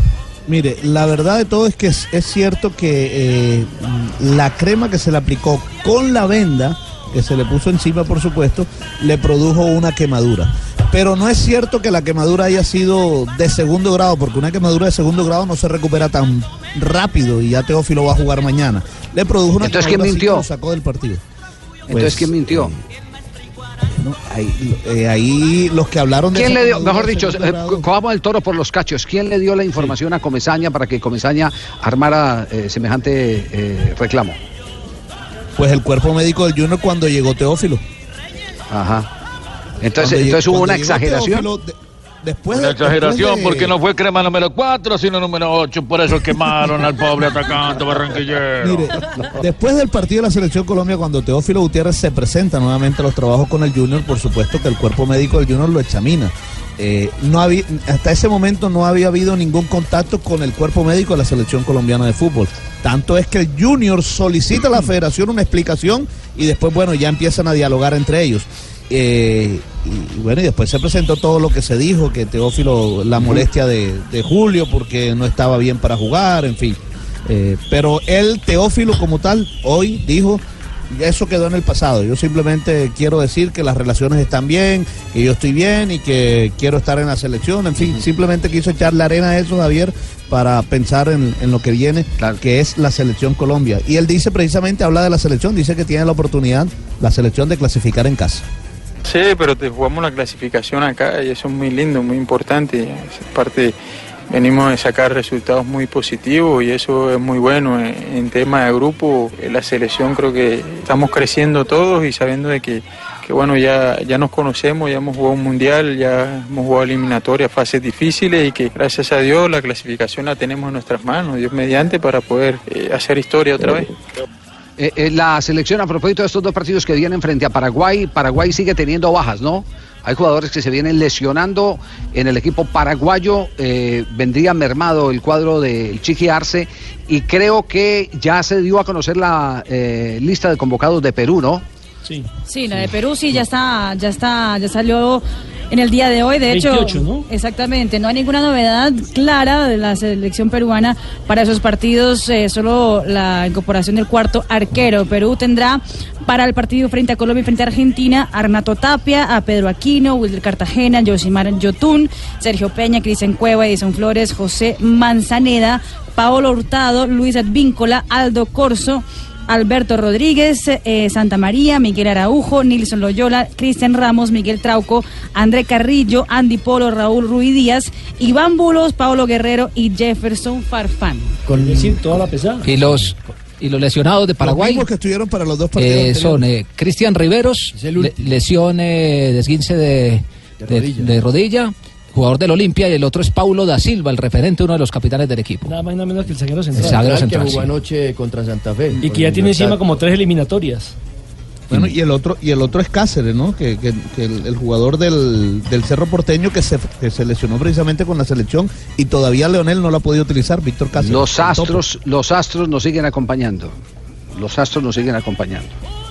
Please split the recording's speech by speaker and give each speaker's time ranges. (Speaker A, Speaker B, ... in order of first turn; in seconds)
Speaker A: 0.5-21.2, 21.9-22.8, 24.0-27.9, 35.6-37.8, 40.0-43.7, 48.6-98.4, 184.4-186.4, 201.7-211.8
Speaker B: 19.6-20.5, 21.9-22.7, 26.3-34.4, 38.7-39.1, 39.8-41.5, 124.8-141.6, 210.9-213.8, 214.3-215.7
Speaker C: 42.5-48.9
Speaker D: 99.0-103.8, 104.3-123.9
Speaker E: 142.5-181.3
Speaker F: 146.5-147.2, 181.5-183.1, 195.6-197.3, 199.0-200.9
Speaker G: 181.4-182.2, 187.7-188.3, 190.6-191.1, 196.8-199.8
Speaker H: 182.6-184.8, 185.8-195.8, 196.7-197.7